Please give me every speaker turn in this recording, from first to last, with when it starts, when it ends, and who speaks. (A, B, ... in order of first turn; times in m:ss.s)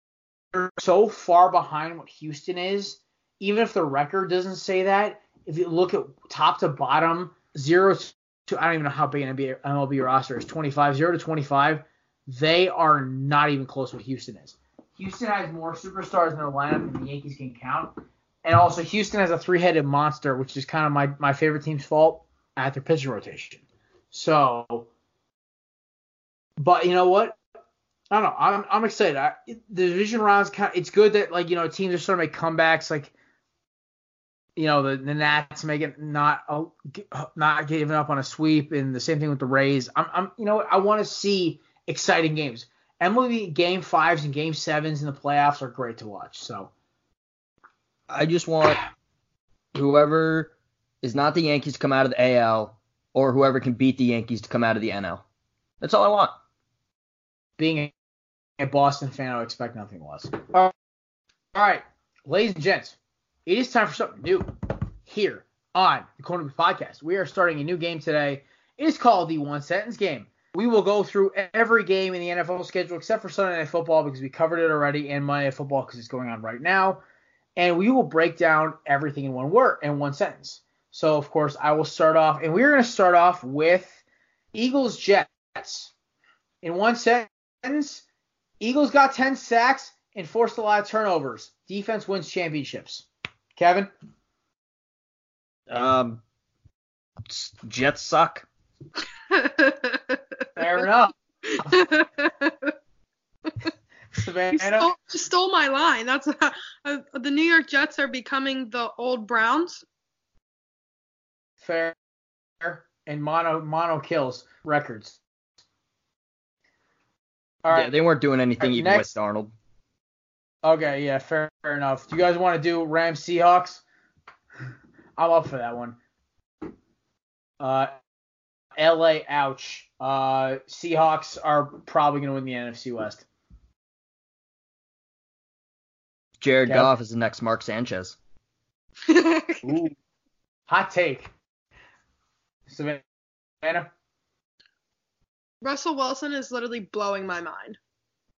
0:00.5-0:24.9 A
0:26.6-0:27.4 A
0:28.1-0:33.1 A
0:34.6-0:46.7 A
0:48.1-0:48.8 B
0:49.7-0:55.2 B
0:55.8-0:56.4 B
0:57.6-0:57.9 A
0:58.6-1:00.7 A
1:01.6-1:04.5 A
1:05.0-1:17.0 A
1:17.6-1:24.0 A
1:24.5-1:25.9 A
1:26.6-1:28.0 A
1:28.6-1:33.9 A
1:35.7-1:36.2 B
1:37.3-1:38.5 B
1:39.3-1:40.2 C
1:40.6-1:41.1 A
1:41.5-1:42.7 C
1:44.2-1:44.9 A
1:44.6-1:49.8 C
1:51.6-1:52.0 A
1:52.6-1:55.2 A
1:57.6-1:57.9 A
1:57.7-1:59.5 B
1:58.6-1:59.1 A
2:00.6-2:03.8 A
2:05.2-2:06.0 A
2:07.6-2:07.9 A
2:08.8-2:13.2 A
2:16.4-2:18.2 B
2:19.1-2:19.6 C
2:19.6-2:20.0 A
2:20.7-2:21.3 A
2:22.7-2:23.0 A
2:23.6-2:23.9 A
2:25.6-2:27.8 C